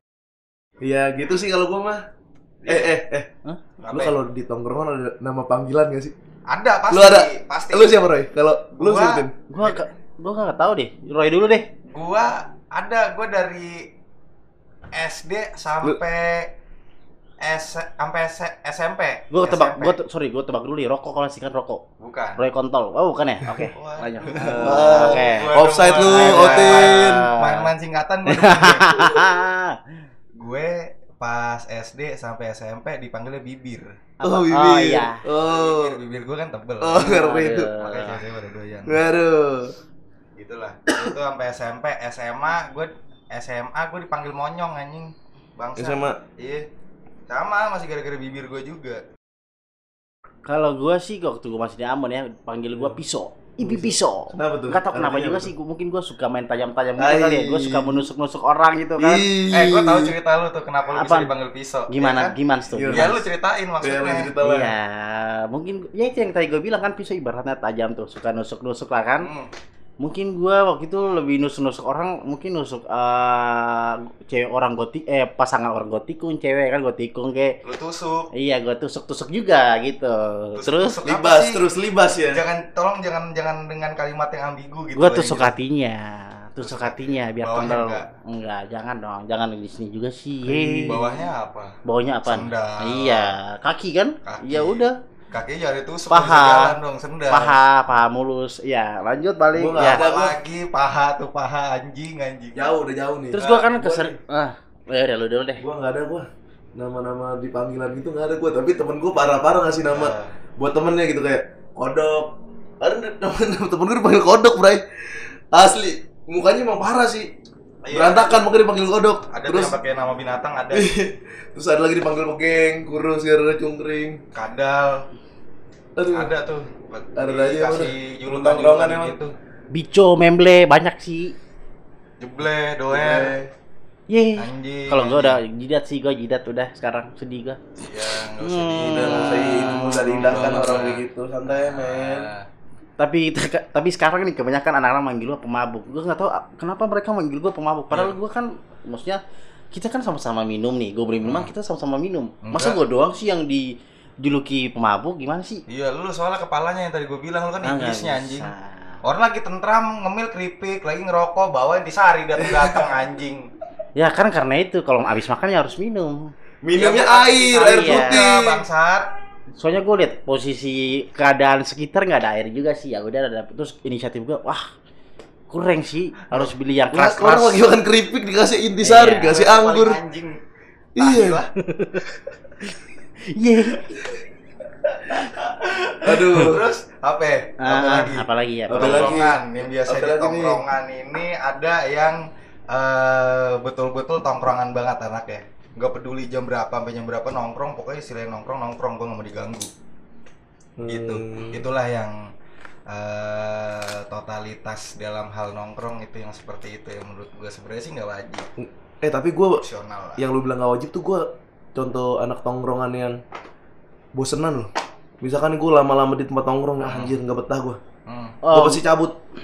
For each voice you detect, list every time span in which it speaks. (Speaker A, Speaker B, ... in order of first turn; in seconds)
Speaker A: 0.8-2.0, 2.7-3.3, 3.9-6.1, 6.9-9.3, 24.3-27.3, 34.2-36.0, 36.8-37.7, 38.9-39.7, 45.8-46.2, 53.6-55.5, 57.0-58.0, 59.0-60.1, 62.7-63.1, 63.8-64.7, 81.0-82.4, 90.5-91.0, 99.5-100.3, 102.6-104.2, 105.6-117.3, 117.9-119.8, 120.7-124.2, 126.0-126.3, 127.2-129.2, 132.9-133.5, 138.8-142.3, 162.5-162.8, 166.6-168.6, 176.9-180.0, 181.0-181.4, 186.0-186.6, 188.7-190.6, 200.8-201.6, 208.6-209.6, 210.2-213.2, 214.2-214.7, 215.2-217.8, 218.5-219.2
Speaker B: 2.6-3.0, 3.8-4.1, 6.5-8.0, 8.7-9.8, 11.9-13.8, 14.9-16.5, 17.4-20.0, 22.0-22.4, 23.6-29.0, 30.4-34.0, 35.3-37.2, 37.7-39.0, 40.4-46.6, 47.3-49.0, 59.5-62.4, 62.9-64.3, 69.2-69.5, 77.6-78.3, 80.6-81.7, 82.3-85.6, 86.6-88.1, 90.9-93.3, 94.2-97.6, 99.8-102.7, 103.4-103.8, 109.9-110.3, 117.8-118.5, 119.3-120.9, 124.3-125.0, 126.1-129.3, 132.2-133.3, 134.4-135.4, 137.8-142.5, 147.9-148.2, 151.2-151.5, 152.4-152.8, 155.7-163.5, 166.8-169.1, 179.2-180.4, 181.0-181.5, 185.4-192.2, 192.7-199.7, 200.8-202.2, 202.9-208.5, 209.6-210.2, 216.8-217.2, 218.1-218.4
Speaker C: 9.5-11.7, 19.3-21.8, 22.4-27.7, 28.3-29.8, 34.2-35.2, 37.0-38.2, 50.5-59.3, 60.9-61.3, 61.9-63.2, 64.4-69.3, 70.0-77.6, 78.3-81.0, 85.0-91.1, 91.8-95.0, 96.1-96.8, 97.3-100.1, 103.3-105.6, 129.7-131.3, 134.1-137.6, 138.4-140.9, 143.0-149.2, 149.7-155.6, 157.6-159.0, 164.0-166.3, 167.5-168.2, 169.6-174.6, 175.5-177.6, 178.8-179.3, 181.7-182.0, 183.4-183.8, 187.6-189.2, 218.4-218.8